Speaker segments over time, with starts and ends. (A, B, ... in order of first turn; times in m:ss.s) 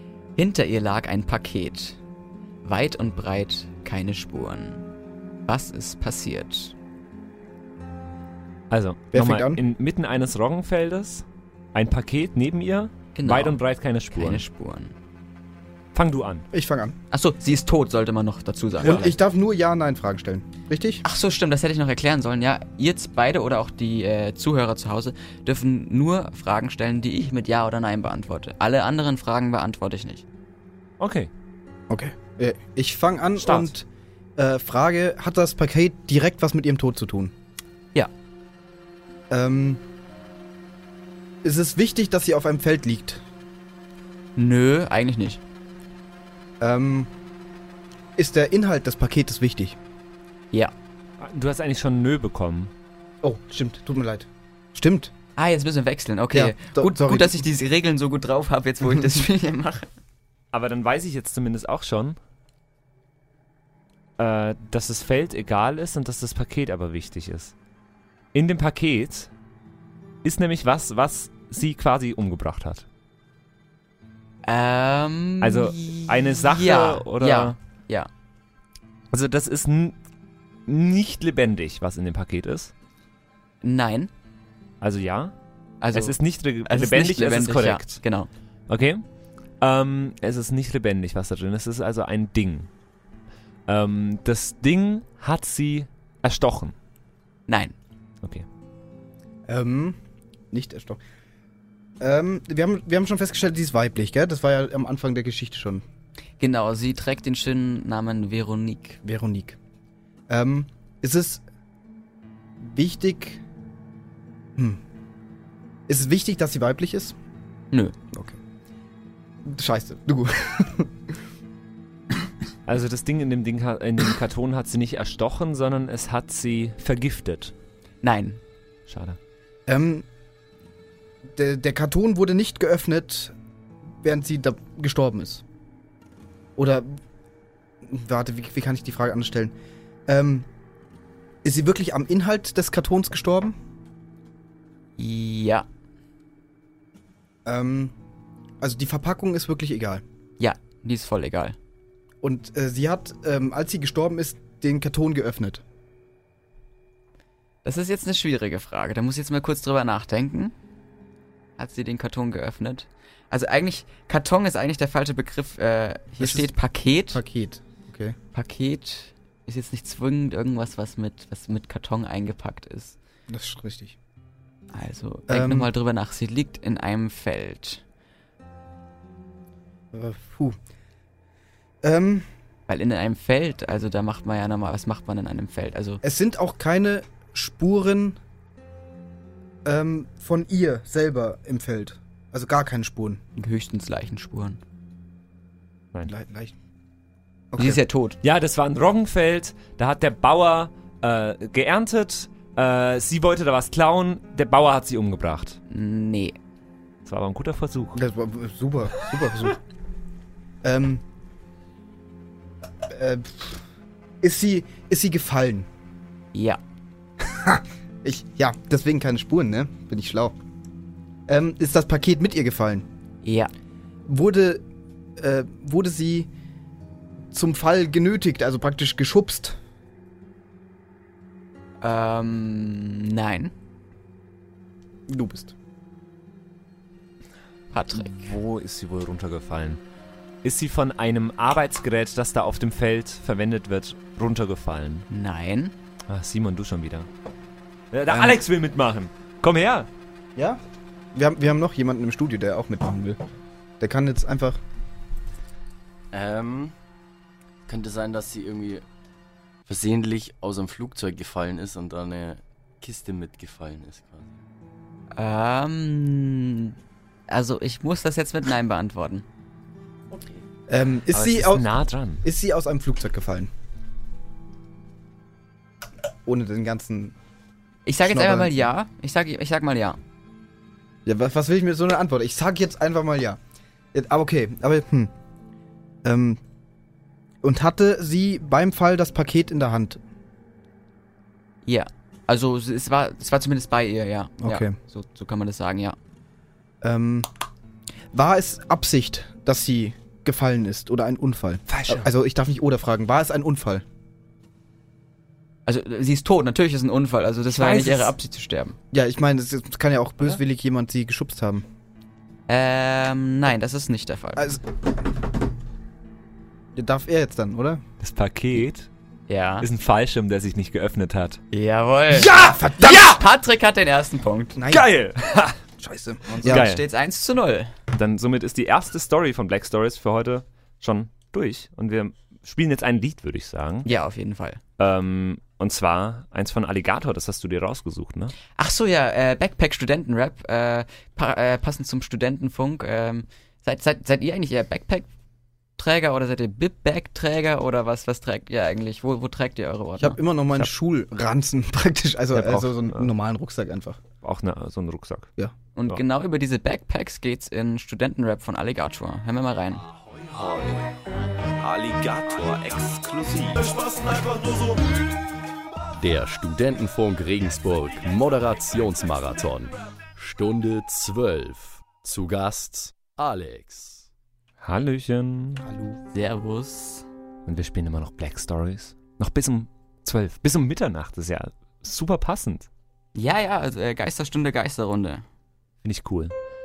0:00.4-0:02.0 A
0:02.6-0:04.8 A
0:05.4-0:06.7 A
0:08.7-0:14.4 B
0:09.1-0:09.6 C
0:13.1-0:13.6 A
0:14.1-0:14.9 A
0:15.9-0:16.5 B
0:16.5-0:17.0 C
0:17.1-0:19.2 A
0:18.8-0:21.0 C
0:21.0-0:30.2 A
0:31.0-0:31.3 B
0:31.9-0:37.3 C
0:33.4-0:33.7 B
0:39.3-0:39.8 C
0:41.4-0:43.2 C
0:44.4-0:45.4 A
0:46.6-0:47.1 C
0:48.2-0:49.8 C
0:51.2-0:52.7 B
0:53.2-0:55.1 C
0:55.4-0:59.9 A
0:56.3-0:57.4 C
0:58.8-0:59.2 C
1:00.5-1:02.2 B
1:04.2-1:07.5 B
1:08.3-1:09.3 B
1:10.2-1:12.8 B
1:14.4-1:18.1 A
1:15.4-1:17.6 B
1:19.1-1:19.9 B
1:20.7-1:22.7 B
1:23.6-1:24.1 A
1:24.8-1:25.3 B
1:25.8-1:26.1 A
1:25.9-1:28.0 B
1:26.6-1:28.3 A
1:28.7-1:29.0 B
1:29.6-1:32.7 B
1:33.7-1:36.7 B
1:37.5-1:37.7 A
1:39.5-1:40.0 C
1:40.5-1:41.0 C
1:42.0-1:45.8 C
1:46.4-1:49.0 A
1:49.0-1:49.6 C
1:50.3-1:51.4 C
1:52.6-1:53.4 C
1:55.9-1:57.2 C
1:58.1-1:58.4 C
1:59.4-2:01.2 C
2:02.6-2:07.5 B
2:08.0-2:08.4 A
2:08.9-2:09.2 B
2:09.7-2:10.0 C
2:11.3-2:13.3 C
2:14.0-2:15.4 C
2:16.6-2:17.0 C
2:17.8-2:19.5 C
2:20.1-2:20.5 C
2:21.4-2:23.6 C
2:25.0-2:25.6 A
2:27.4-2:27.9 C
2:28.6-2:30.0 C
2:30.4-2:31.6 A
2:32.2-2:35.6 C
2:37.6-2:40.5 A
2:41.6-2:47.2 A
2:46.2-2:46.5 C
2:47.1-2:48.2 C
2:48.3-2:53.0 A
2:53.3-2:54.0 C
2:54.7-2:57.8 A
2:55.3-2:55.7 C
2:59.9-3:00.6 C
3:01.8-3:02.3 C
3:02.7-3:06.0 A
3:06.0-3:08.2 C
3:09.6-3:13.2 C
3:13.4-3:14.6 A
3:16.1-3:16.5 C
3:17.5-3:17.8 C
3:17.6-3:18.2 A
3:18.2-3:25.6 B
3:25.7-3:26.4 A
3:27.0-3:28.0 B
3:27.9-3:29.6 C
3:30.6-3:31.0 C
3:32.8-3:33.6 C
3:34.2-3:35.7 C
3:36.3-3:36.6 A
3:37.2-3:40.4 C
3:41.3-3:42.8 C
3:43.2-3:43.5 A
3:44.0-3:44.6 C
3:45.2-3:46.3 C
3:47.3-3:49.6 C
3:51.8-3:53.5 A
3:55.1-3:55.5 C
3:57.7-3:58.4 A
3:57.9-3:59.8 B
4:00.4-4:05.1 B
4:05.1-4:05.7 A
4:06.1-4:07.1 B
4:07.9-4:09.9 B
4:08.1-4:08.4 C
4:10.4-4:10.6 C
4:11.1-4:13.2 C
4:13.8-4:14.6 C
4:16.1-4:16.7 D
4:17.7-4:18.8 D
4:19.6-4:24.4 D
4:25.1-4:26.8 A
4:27.3-4:29.2 A
4:30.7-4:33.5 C
4:31.1-4:32.2 B
4:36.2-4:37.1 C
4:37.8-4:40.0 A
4:38.0-4:38.6 C
4:41.0-4:43.4 C
4:43.9-4:45.1 C
4:46.0-4:46.4 C
4:47.4-4:50.0 C
4:51.6-4:56.0 A
4:54.4-4:54.8 C
4:56.8-4:57.3 C
4:58.1-5:03.8 C
5:01.7-5:02.1 B
5:05.6-5:08.8 A
5:07.5-5:08.1 B
5:08.9-5:11.6 C
5:12.5-5:14.5 A
5:14.4-5:14.6 C
5:16.7-5:17.8 C
5:18.0-5:18.9 B
5:19.3-5:19.6 A
5:19.6-5:21.4 B
5:21.5-5:24.6 A
5:22.1-5:23.2 C
5:24.6-5:24.9 C
5:24.7-5:25.6 B
5:25.8-5:26.7 C
5:26.4-5:26.8 B
5:26.4-5:27.7 A
5:27.9-5:33.9 B
5:33.8-5:34.6 A
5:34.8-5:38.3 B
5:38.5-5:45.1 A
5:45.8-5:50.2 A
5:50.0-5:54.0 C
5:52.3-5:53.1 B
5:54.2-5:55.3 B
5:55.8-5:59.8 A
6:00.4-6:00.7 B
6:01.8-6:03.6 B
6:06.0-6:14.1 E
6:14.6-6:15.6 B
6:15.6-6:16.0 C
6:16.1-6:17.1 A
6:17.4-6:22.7 B
6:23.1-6:25.2 A
6:25.8-6:26.3 B